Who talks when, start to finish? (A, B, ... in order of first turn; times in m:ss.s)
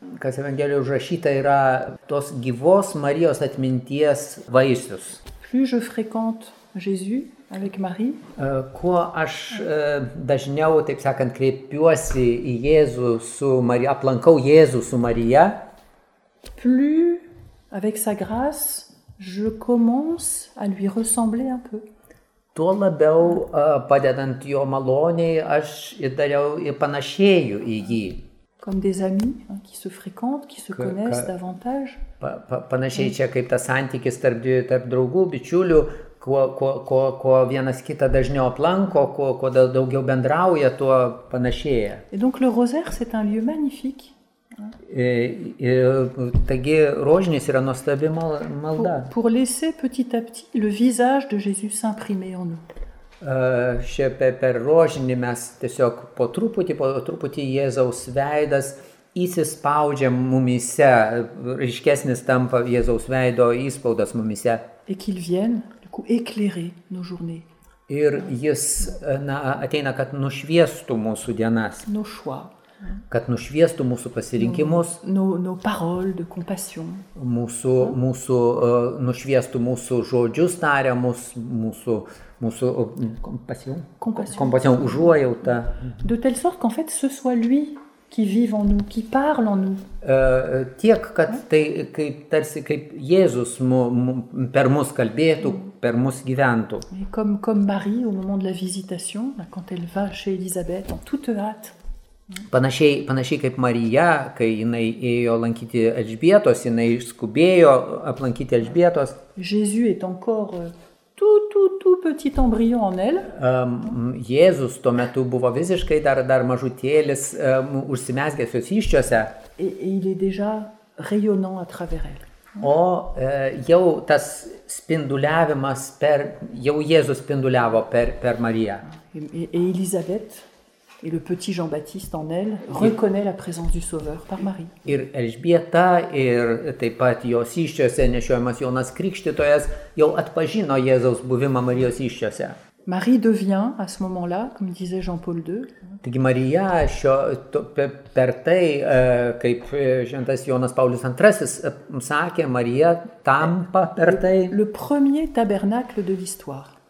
0:00.2-0:05.2 A
0:05.4-0:08.2 B
0:08.4-0:15.6 A
0:16.6-0:21.8 B
0:22.6-0:28.2 A
0:28.6-0:32.0 B
0:30.8-0:31.3 A
0:32.2-0:42.0 A
0:42.1-0:44.1 B
0:44.9-0:49.1 A
0:48.8-0:52.6 B
0:53.2-1:04.6 A
1:04.9-1:07.5 B
1:07.9-1:11.9 A
1:11.9-1:12.5 B
1:13.1-1:15.0 A
1:14.4-1:17.1 B
1:17.2-1:26.0 A
1:24.0-1:25.1 B
1:26.0-1:29.8 B
1:30.0-1:36.9 A
1:36.9-1:41.8 B
1:42.5-1:49.2 A
1:49.4-1:53.3 B
1:53.3-1:59.3 A
1:59.6-2:02.2 B
2:02.6-2:08.8 A
2:08.9-2:10.5 B
2:11.0-2:14.8 B
2:14.8-2:22.6 A
2:22.9-2:25.7 B
2:26.0-2:34.5 A
2:34.5-2:36.7 B